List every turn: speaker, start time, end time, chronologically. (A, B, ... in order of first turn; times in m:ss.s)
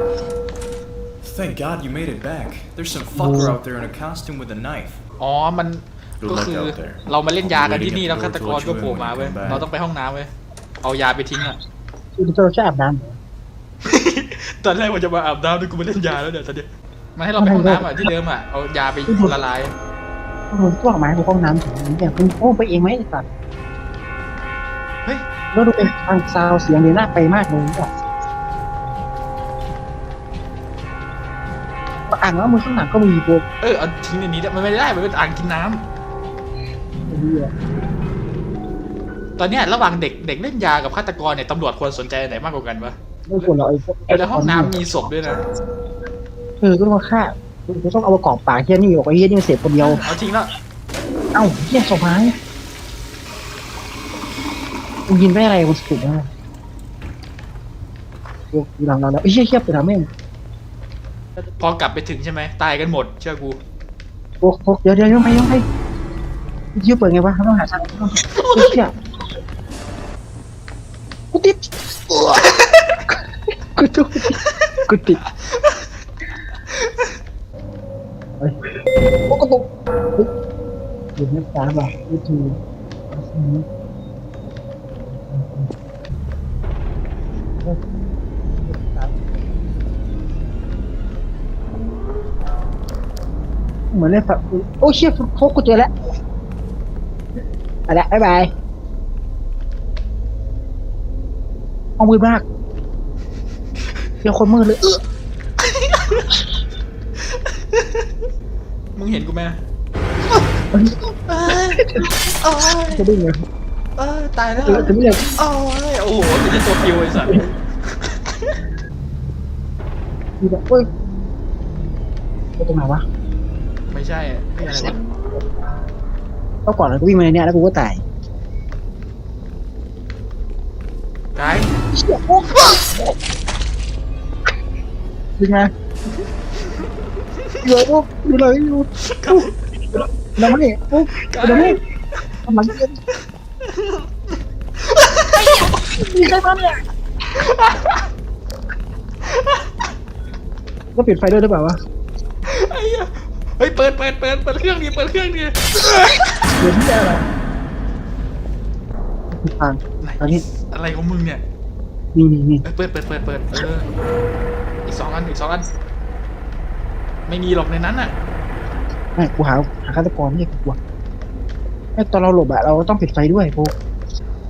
0:01.2-0:05.0 A
0:03.2-0:03.6 B
0:05.2-0:10.3 C
0:06.2-0:09.7 A
0:10.8-0:11.6 C
0:12.2-0:13.2 B
0:13.8-0:19.7 C
0:17.4-0:18.1 B
0:19.0-0:19.4 B
0:20.5-0:23.2 B
0:25.5-0:27.9 B
0:32.1-0:33.4 B
0:33.6-0:35.8 C
0:37.1-0:37.5 B
0:39.4-0:43.5 C
0:43.3-0:44.7 B
0:44.1-0:45.4 C
0:46.6-0:50.0 B
0:49.8-0:50.5 C
0:51.3-0:52.3 B
0:55.1-0:56.3 B
0:58.5-1:00.1 B
1:01.6-1:03.6 C
1:04.4-1:05.6 B
1:06.7-1:08.9 B
1:08.4-1:08.8 C
1:11.3-1:12.5 B
1:12.4-1:13.0 C
1:13.7-1:15.2 B
1:14.4-1:15.8 C
1:19.3-1:20.3 B
1:21.2-1:22.6 B
1:23.1-1:23.6 B
1:25.0-1:25.7 B
1:28.6-1:29.2 B
1:33.9-1:35.9 B
1:37.9-1:38.5 B
1:42.0-1:42.4 B
1:44.2-1:45.0 B
1:45.6-1:46.3 C
1:47.3-1:48.1 C
1:48.9-1:49.6 C
1:50.7-1:52.1 B
1:51.3-1:51.8 C
1:52.4-1:53.0 C
1:52.9-1:53.4 B
1:54.0-1:58.5 C
1:54.6-1:55.4 B
2:00.4-2:00.9 B
2:02.6-2:03.0 B
2:03.9-2:05.0 C
2:04.7-2:04.9 B
2:06.6-2:08.0 B
2:11.3-2:11.7 C
2:11.9-2:12.9 B
2:15.4-2:15.7 B
2:17.6-2:19.5 B
2:19.1-2:19.5 C
2:20.4-2:21.8 B
2:21.2-2:22.2 C
2:22.4-2:23.0 B
2:23.7-2:24.0 C
2:24.8-2:25.7 C
2:25.3-2:26.8 B
2:27.3-2:28.1 C
2:29.2-2:29.9 C
2:30.9-2:31.8 B
2:32.4-2:36.5 C
2:36.6-2:37.2 B
2:39.3-2:40.4 B
2:40.0-2:41.4 C
2:42.1-2:42.6 B
2:42.6-2:43.9 C
2:44.8-2:45.6 C
2:47.3-2:48.1 C
2:49.2-2:50.8 B
2:52.0-2:53.7 B